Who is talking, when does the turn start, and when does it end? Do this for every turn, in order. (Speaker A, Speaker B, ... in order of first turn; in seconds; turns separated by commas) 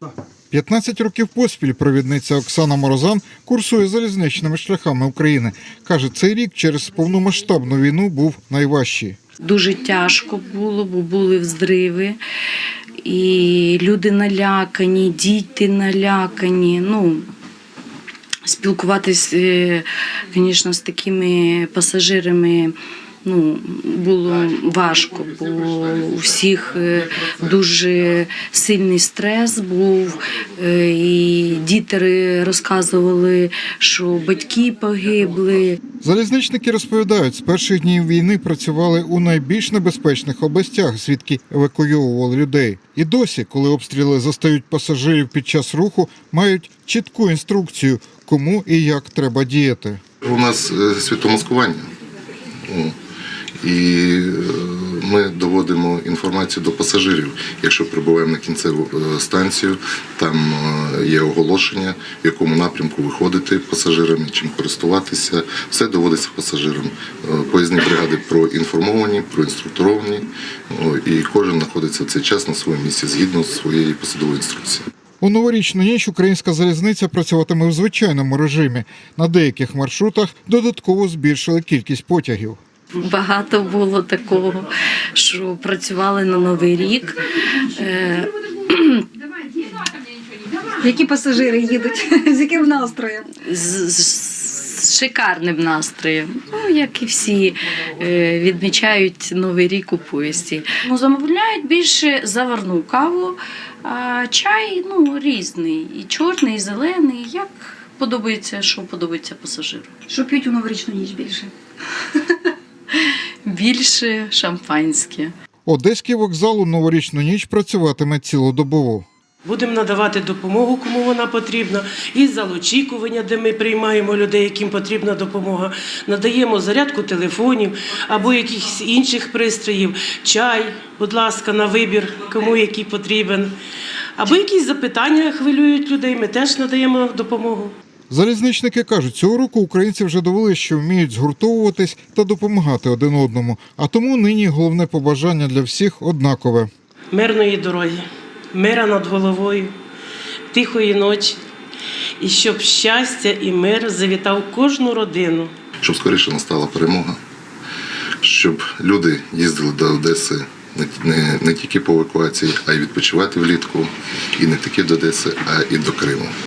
Speaker A: 0.5-9.2, Speaker B: 9.4-12.2, Speaker B: 13.0-17.2, Speaker B: 18.4-22.7, Speaker B: 23.2-35.8, Speaker A: 36.0-50.0, Speaker C: 50.2-51.9, Speaker C: 52.7-52.9, Speaker C: 53.6-74.8, Speaker A: 75.2-82.6, Speaker B: 82.9-89.0, Speaker D: 90.8-93.2, Speaker B: 93.3-109.9, Speaker D: 110.1-111.5, Speaker B: 112.9-115.3, Speaker A: 115.7-119.0, Speaker E: 119.4-133.5, Speaker E: 134.2-137.7, Speaker A: 138.1-146.7, Speaker E: 147.1-149.7, Speaker E: 150.5-151.4, Speaker E: 152.2-155.5, Speaker C: 155.8-157.2, Speaker C: 158.2-166.3